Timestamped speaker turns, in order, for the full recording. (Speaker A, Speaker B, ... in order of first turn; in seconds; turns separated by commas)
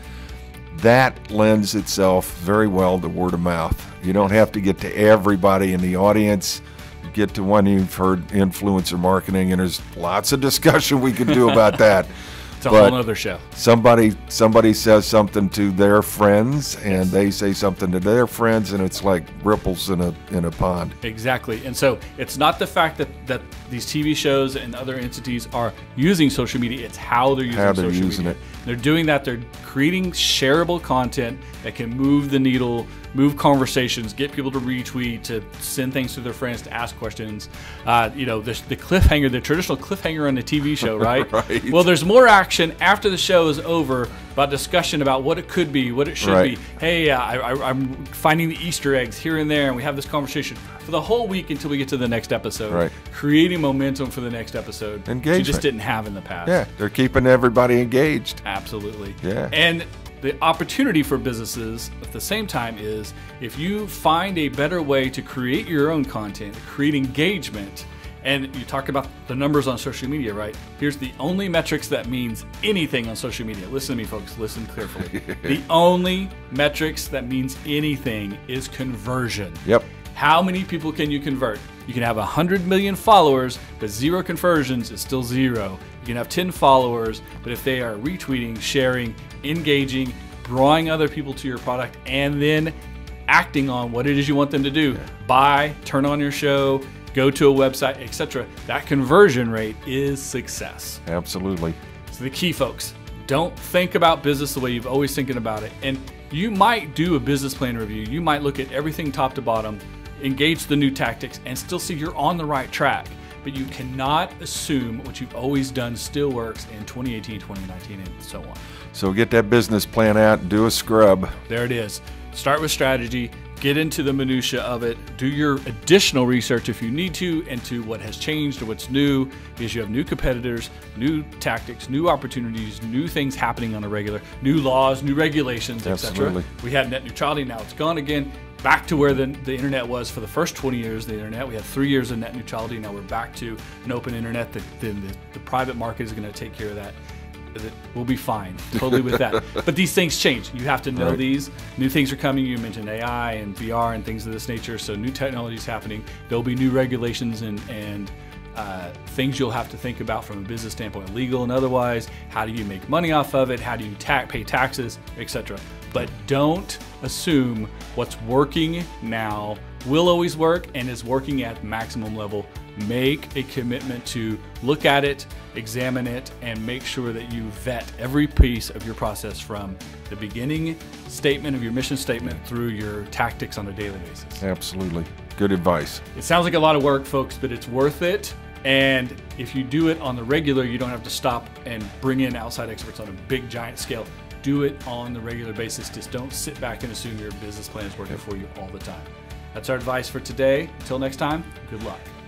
Speaker A: 0.7-12.1, Speaker B: 11.3-11.6, Speaker B: 12.6-13.4, Speaker A: 12.6-13.0, Speaker A: 13.5-20.9, Speaker B: 21.0-56.6, Speaker A: 27.5-28.4, Speaker A: 41.0-41.8, Speaker A: 46.2-46.5, Speaker A: 55.1-55.6, Speaker A: 56.5-58.4, Speaker B: 58.4-92.7, Speaker A: 59.2-59.5, Speaker A: 75.1-75.5, Speaker B: 93.3-101.0, Speaker A: 101.0-101.8, Speaker B: 102.1-118.6, Speaker A: 118.9-121.3, Speaker B: 121.5-147.0, Speaker A: 135.8-136.4, Speaker B: 147.5-184.4, Speaker A: 184.4-186.0, Speaker B: 186.1-202.1